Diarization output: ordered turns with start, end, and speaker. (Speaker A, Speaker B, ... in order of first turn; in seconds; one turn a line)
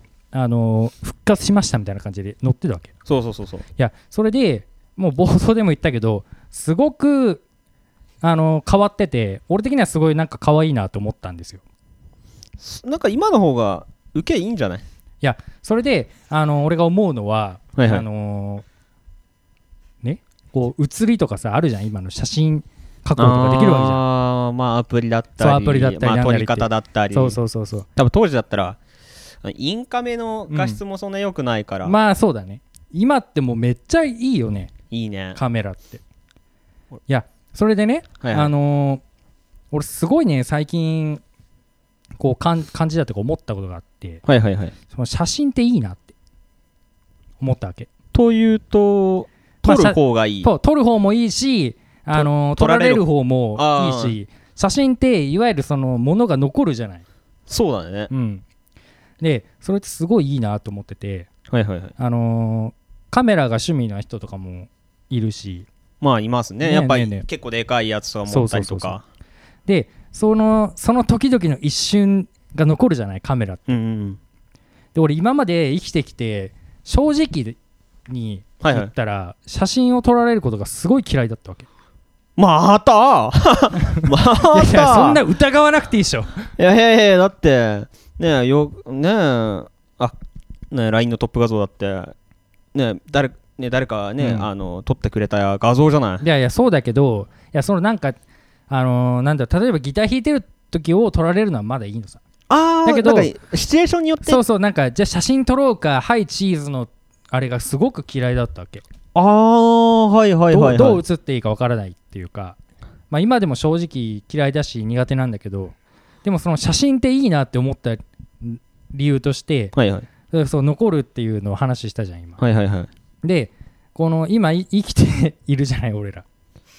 Speaker A: 0.3-2.9
Speaker B: 3.0-3.6
Speaker A: 3.8-7.4
Speaker A: 8.2-11.6
Speaker B: 12.6-14.8
Speaker A: 15.2-18.6
Speaker B: 17.8-18.0
Speaker A: 20.0-24.0
Speaker B: 23.2-27.4
Speaker A: 25.4-27.9
Speaker B: 27.9-28.8
Speaker B: 29.4-31.9
Speaker A: 30.5-30.8
Speaker A: 31.8-34.7
Speaker B: 34.9-35.4
Speaker A: 35.4-36.0
Speaker A: 37.1-39.0
Speaker B: 38.2-38.5
Speaker A: 39.7-41.2
Speaker A: 42.2-44.2
Speaker B: 44.2-44.7
Speaker A: 44.9-46.1
Speaker A: 47.4-47.9
Speaker B: 48.1-50.5
Speaker A: 49.6-57.0
Speaker B: 52.1-53.0
Speaker B: 53.5-54.1
Speaker B: 57.5-58.1
Speaker A: 58.1-58.4
Speaker A: 59.2-61.3
Speaker B: 61.5-61.9
Speaker A: 62.0-65.7
Speaker B: 66.0-69.0
Speaker A: 66.6-67.3
Speaker A: 68.3-69.0
Speaker A: 69.7-73.7
Speaker B: 73.7-74.2
Speaker A: 74.9-81.7
Speaker B: 78.6-78.9
Speaker B: 82.4-85.2
Speaker A: 84.0-86.5
Speaker B: 86.6-90.1
Speaker B: 90.7-92.1
Speaker B: 92.7-96.2
Speaker A: 94.2-94.5
Speaker A: 96.2-98.2
Speaker A: 98.7-102.2
Speaker B: 102.5-104.4
Speaker A: 102.8-103.3
Speaker A: 104.2-108.8
Speaker B: 109.1-111.0
Speaker A: 110.5-112.6
Speaker A: 113.1-119.7
Speaker B: 119.7-120.1
Speaker A: 120.3-122.4
Speaker B: 122.4-122.9
Speaker A: 123.2-126.2